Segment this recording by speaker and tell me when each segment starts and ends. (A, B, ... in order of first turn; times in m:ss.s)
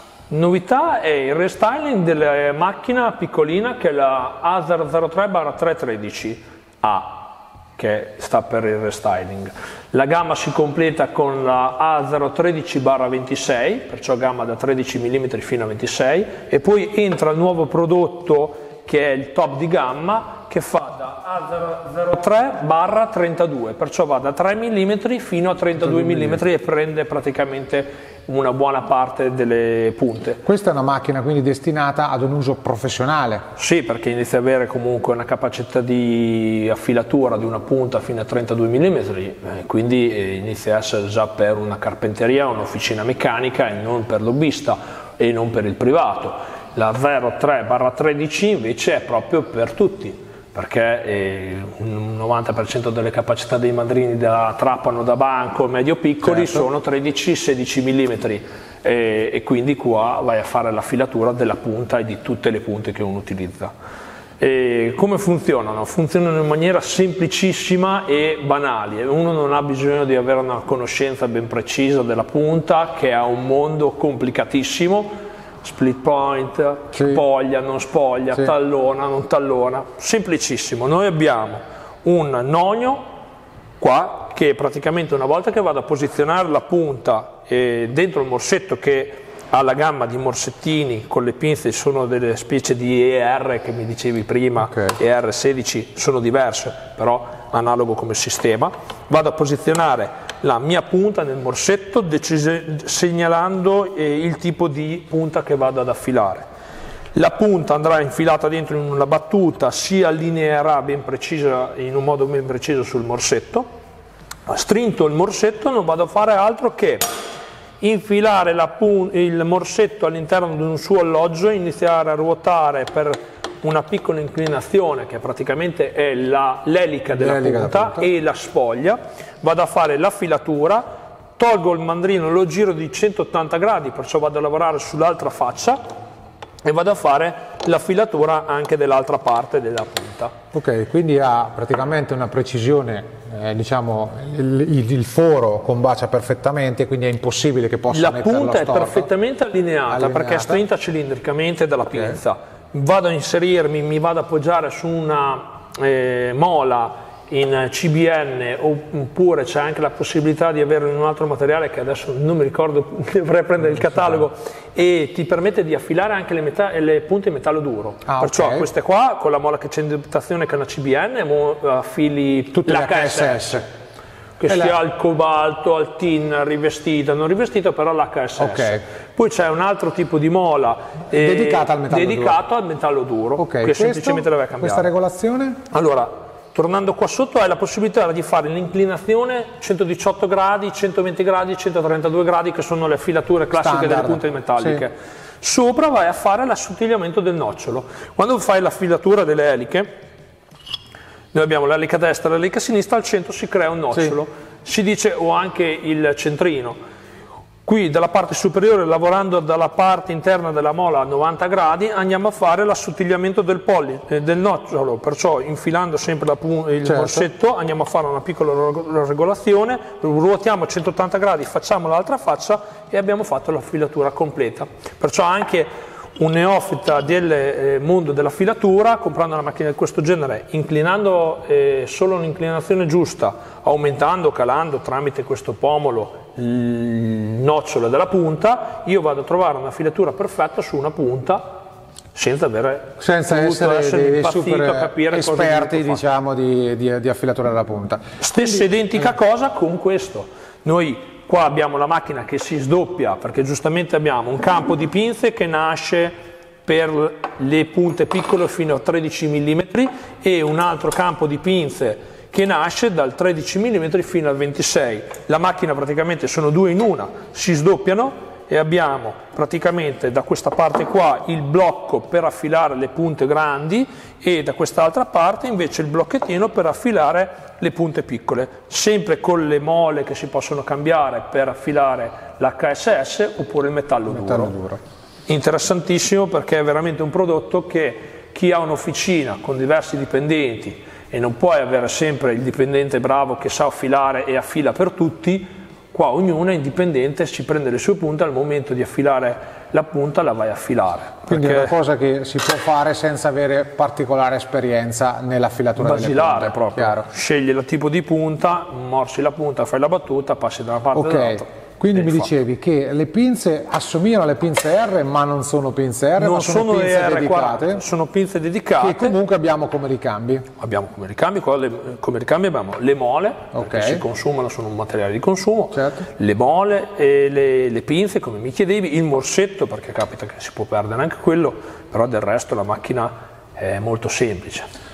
0:00.3-0:30.4 A
0:25.8-0:26.4 B
0:30.4-0:33.4 B
0:33.6-1:03.7 A
0:56.2-0:56.7 B
1:04.4-1:23.0 A
1:16.9-1:17.2 B
1:23.8-1:46.5 A
1:47.2-1:53.7 A
1:54.5-1:57.1 A
1:57.8-2:10.8 A
2:07.2-2:08.1 B
2:11.4-2:15.8 A
2:16.6-2:20.3 A
2:20.5-2:29.1 B
2:27.9-2:53.6 A
2:29.9-2:30.6 B
2:31.9-2:32.2 B
2:48.1-2:48.7 B
2:52.6-2:53.6 B
2:54.4-3:04.9 A
2:54.5-2:54.8 B
2:58.4-2:58.8 B
3:01.1-3:02.4 B
3:03.4-3:05.6 B
3:05.7-3:19.9 A
3:13.6-3:14.8 B
3:21.3-3:26.8 A
3:27.6-4:01.6 A
3:36.8-3:37.3 B
4:02.1-4:06.0 A
4:03.0-4:08.7 B
4:08.2-4:44.5 A
4:44.1-4:44.8 B
4:45.3-5:01.7 A
5:01.3-5:07.1 B
5:05.8-5:12.3 A
5:10.9-5:17.8 B
5:16.2-5:19.2 A
5:18.8-5:20.4 B
5:20.6-5:34.7 A
5:23.5-5:24.0 B
5:25.7-5:26.0 B